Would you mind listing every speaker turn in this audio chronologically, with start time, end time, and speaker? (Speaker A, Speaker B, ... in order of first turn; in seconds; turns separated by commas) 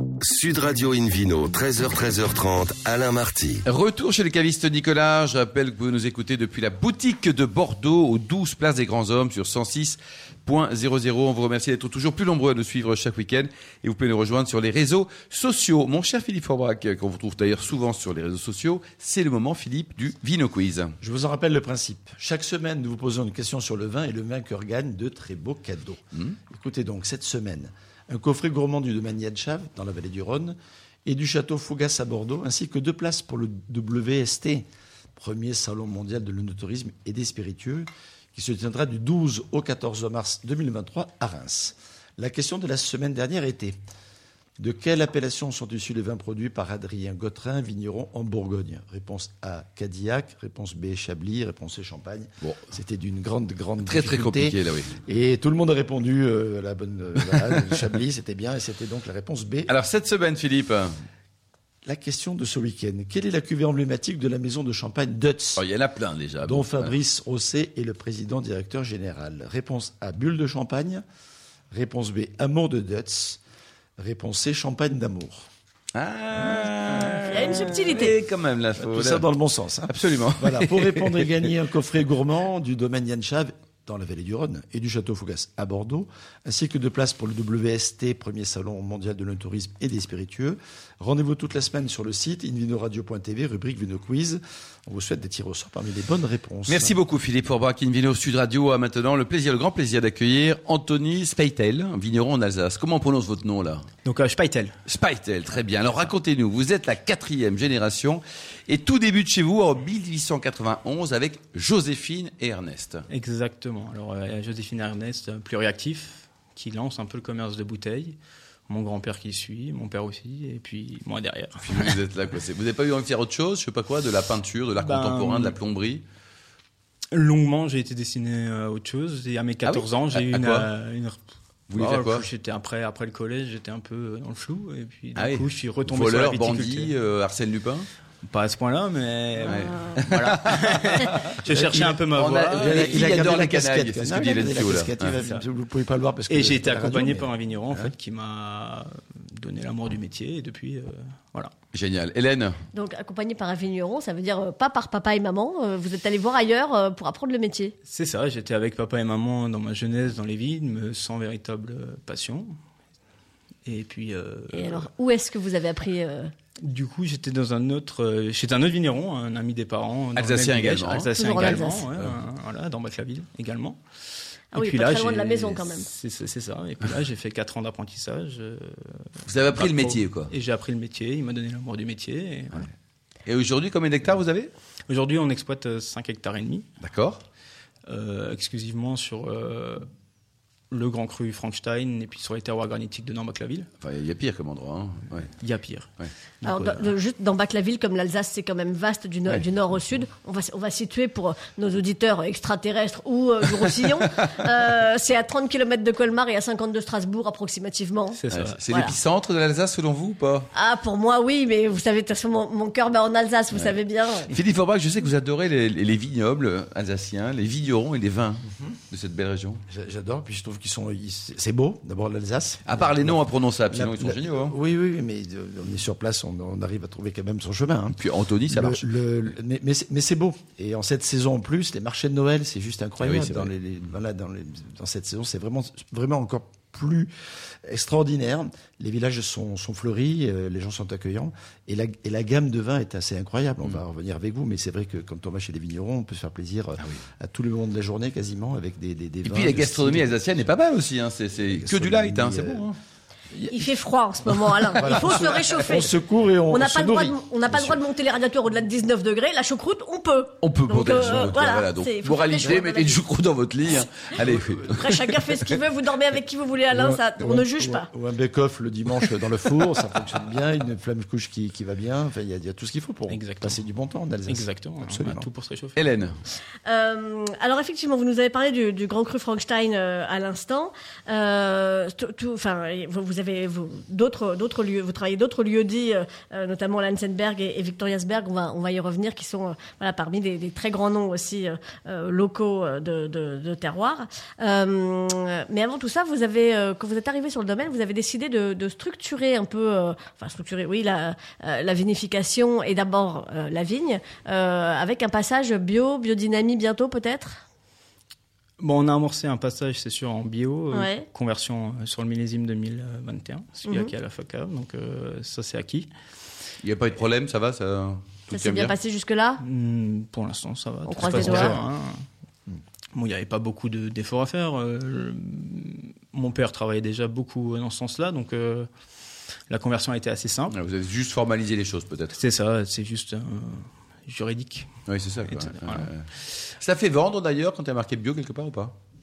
Speaker A: 0.2-3.6, Speaker B: 3.6-21.0, Speaker C: 21.0-43.8, Speaker C: 44.6-59.7, Speaker B: 52.4-52.7, Speaker B: 53.8-54.9, Speaker B: 59.7-60.9, Speaker C: 61.9-65.6, Speaker B: 65.6-66.9, Speaker C: 66.4-71.0, Speaker C: 71.7-73.4, Speaker C: 74.0-75.5, Speaker B: 75.9-79.2, Speaker D: 77.3-78.1, Speaker C: 78.8-96.9, Speaker B: 79.9-81.3, Speaker B: 96.7-103.9, Speaker E: 104.0-104.8, Speaker B: 104.9-113.0, Speaker E: 113.1-118.2, Speaker E: 118.7-122.0, Speaker B: 121.6-126.0, Speaker E: 124.8-125.6, Speaker E: 127.1-131.2, Speaker B: 129.7-130.7, Speaker B: 131.7-132.3, Speaker E: 131.7-136.9, Speaker B: 135.2-137.9, Speaker E: 138.2-142.9, Speaker B: 139.4-145.2, Speaker C: 141.5-142.0, Speaker C: 142.5-147.9, Speaker E: 145.2-145.4, Speaker E: 146.3-151.5, Speaker B: 151.7-152.6, Speaker D: 152.7-157.8, Speaker E: 157.9-162.5, Speaker E: 163.7-164.9, Speaker D: 164.5-166.3, Speaker E: 166.6-173.8, Speaker B: 170.2-171.1, Speaker D: 171.1-171.9, Speaker E: 174.5-182.7, Speaker D: 174.5-175.9, Speaker B: 179.3-180.3, Speaker B: 183.3-184.5, Speaker E: 184.9-186.7, Speaker B: 186.8-187.2, Speaker E: 187.9-189.9, Speaker E: 190.7-193.7, Speaker B: 193.8-195.3, Speaker E: 195.4-195.9, Speaker E: 196.4-196.9, Speaker D: 196.4-208.2, Speaker E: 208.2-208.6, Speaker B: 208.3-210.5, Speaker D: 208.7-208.9, Speaker D: 210.5-214.3, Speaker B: 214.3-219.6, Speaker C: 219.7-237.1, Speaker B: 222.7-224.6, Speaker B: 227.9-228.9, Speaker B: 233.0-233.5, Speaker C: 237.6-250.2, Speaker B: 249.2-252.8, Speaker C: 251.4-252.7, Speaker C: 253.3-253.7, Speaker D: 253.5-255.9, Speaker C: 254.7-257.8, Speaker D: 256.5-263.0, Speaker B: 260.4-265.6, Speaker D: 264.2-267.9, Speaker C: 266.7-275.3, Speaker E: 273.1-273.6, Speaker E: 274.3-275.8, Speaker B: 275.8-276.2, Speaker D: 276.6-307.4, Speaker E: 308.6-315.9, Speaker D: 310.7-311.1, Speaker D: 313.7-313.9, Speaker B: 316.6-318.8, Speaker D: 318.3-319.4, Speaker E: 319.4-322.1, Speaker D: 320.9-321.6, Speaker C: 321.2-321.4, Speaker E: 322.9-328.7, Speaker E: 329.5-330.6, Speaker B: 330.5-332.2, Speaker E: 332.1-334.7, Speaker B: 334.9-338.8, Speaker E: 335.3-335.9